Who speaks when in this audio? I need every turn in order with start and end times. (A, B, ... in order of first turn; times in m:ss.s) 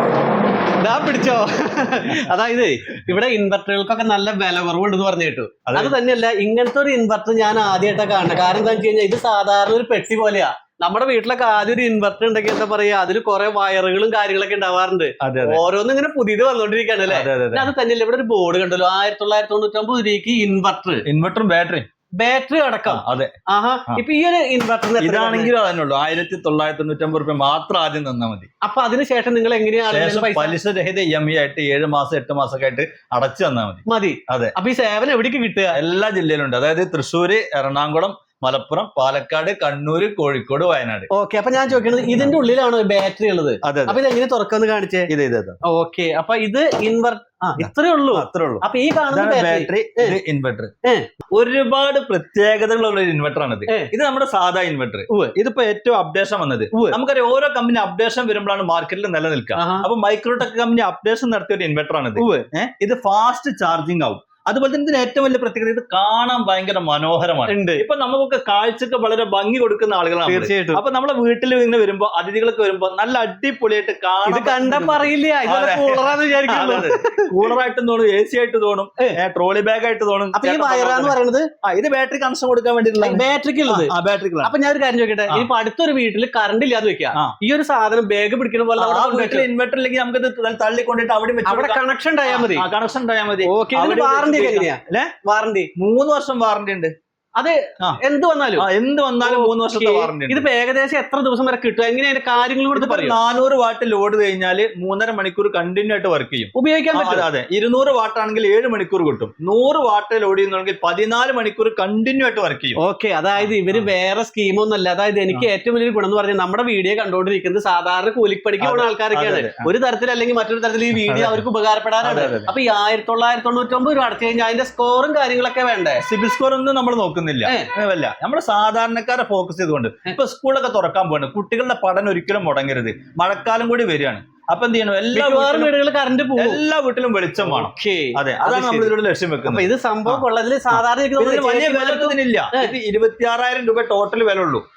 0:00.8-0:21.0 A
0:05.7-0:05.9 B
0:15.2-0:15.6 B
0:17.1-0:17.7 B
0:21.0-0:21.8 B
0:22.2-0:25.5 A
0:22.9-0:23.3 B
0:25.0-0:28.5 B
0:28.6-0:30.5 A
0:29.8-0:34.5 B
0:33.9-0:35.8 A
0:35.7-0:41.1 B
0:41.1-0:45.1 A
0:43.6-0:44.0 B
0:45.1-0:45.6 B
0:45.6-0:50.2 A
0:47.6-0:50.7 B
0:51.3-1:24.5 B
0:59.6-0:59.9 A
1:02.2-1:02.4 A
1:07.5-1:07.8 A
1:10.2-1:10.8 A
1:14.2-1:17.3 A
1:20.3-1:21.5 A
1:23.0-1:23.9 A
1:24.4-1:29.5 A
1:28.8-1:35.1 B
1:31.4-1:32.6 A
1:33.4-1:35.7 A
1:35.8-1:36.9 B
1:37.4-1:38.7 A
1:38.6-1:40.5 B
1:39.2-1:43.2 A
1:42.7-1:52.8 B
1:46.5-1:47.3 A
1:52.8-2:06.0 A
1:53.4-1:53.9 B
1:58.6-1:59.7 B
2:00.9-2:01.4 B
2:02.0-2:02.5 B
2:06.0-2:15.7 B
2:15.1-2:16.6 A
2:16.4-2:24.6 B
2:17.4-2:18.9 A
2:19.4-2:22.7 A